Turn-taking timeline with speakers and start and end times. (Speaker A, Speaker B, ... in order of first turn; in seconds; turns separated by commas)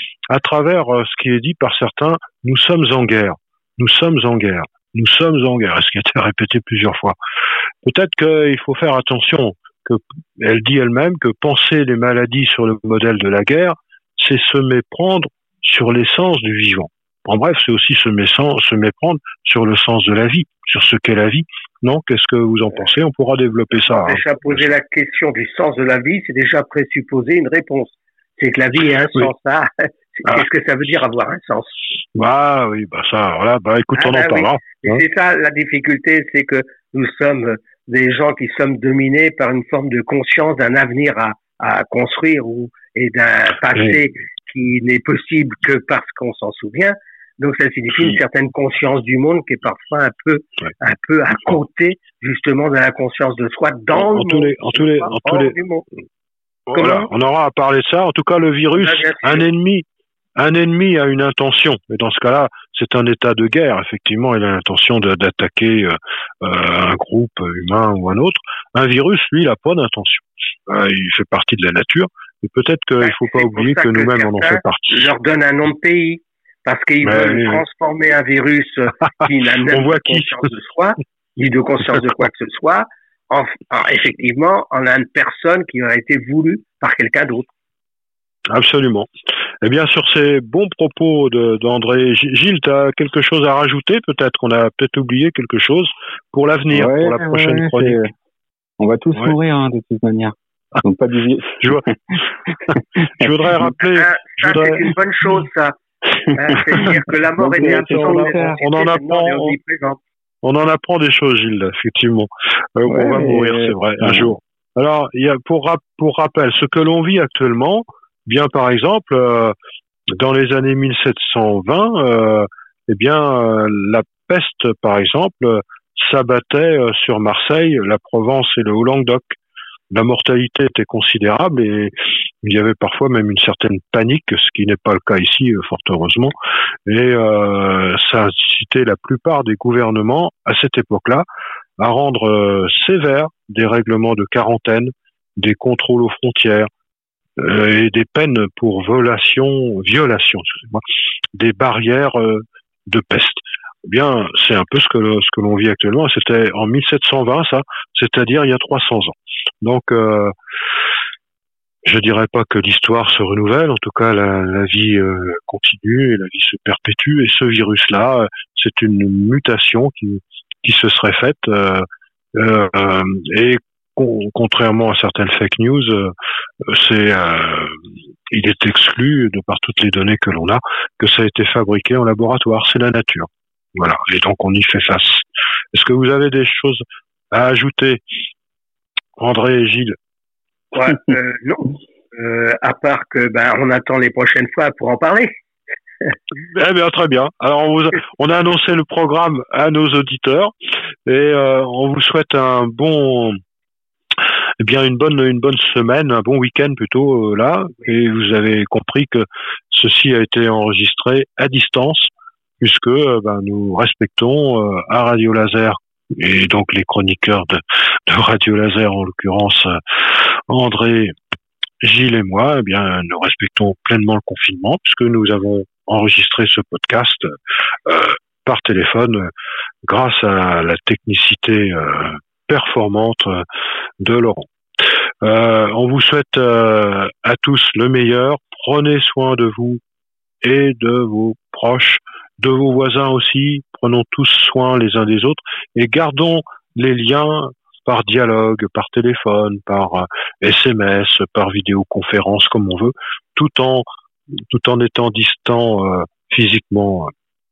Speaker A: 0.3-7.2, Speaker A: 7.8-24.6, Speaker B: 23.9-31.8, Speaker A: 32.1-35.0, Speaker B: 33.9-55.9, Speaker A: 53.9-55.5, Speaker A: 56.7-75.1, Speaker B: 56.7-57.1, Speaker B: 58.7-59.5, Speaker B: 73.0-87.5, Speaker A: 77.0-77.6, Speaker A: 79.7-80.5, Speaker A: 88.5-89.1, Speaker A: 89.6-98.0, Speaker C: 96.7-98.1, Speaker C: 98.8-103.3, Speaker A: 102.7-104.9, Speaker B: 103.8-105.8, Speaker B: 106.3-110.0, Speaker C: 106.5-108.6, Speaker A: 107.5-109.5, Speaker A: 110.4-119.5, Speaker C: 112.9-114.3, Speaker A: 120.2-129.3, Speaker A: 129.9-136.3, Speaker A: 136.9-141.2, Speaker A: 141.8-146.7, Speaker A: 147.4-150.8, Speaker A: 151.3-160.3, Speaker A: 161.8-177.8, Speaker A: 178.3-188.0, Speaker A: 189.2-190.0, Speaker B: 190.7-195.3, Speaker A: 196.5-200.5, Speaker A: 201.1-203.4, Speaker A: 204.6-221.1, Speaker A: 221.8-227.3, Speaker A: 227.9-229.3, Speaker A: 229.8-233.4, Speaker A: 234.0-234.5, Speaker A: 235.2-239.8, Speaker A: 240.4-253.9, Speaker A: 254.4-257.1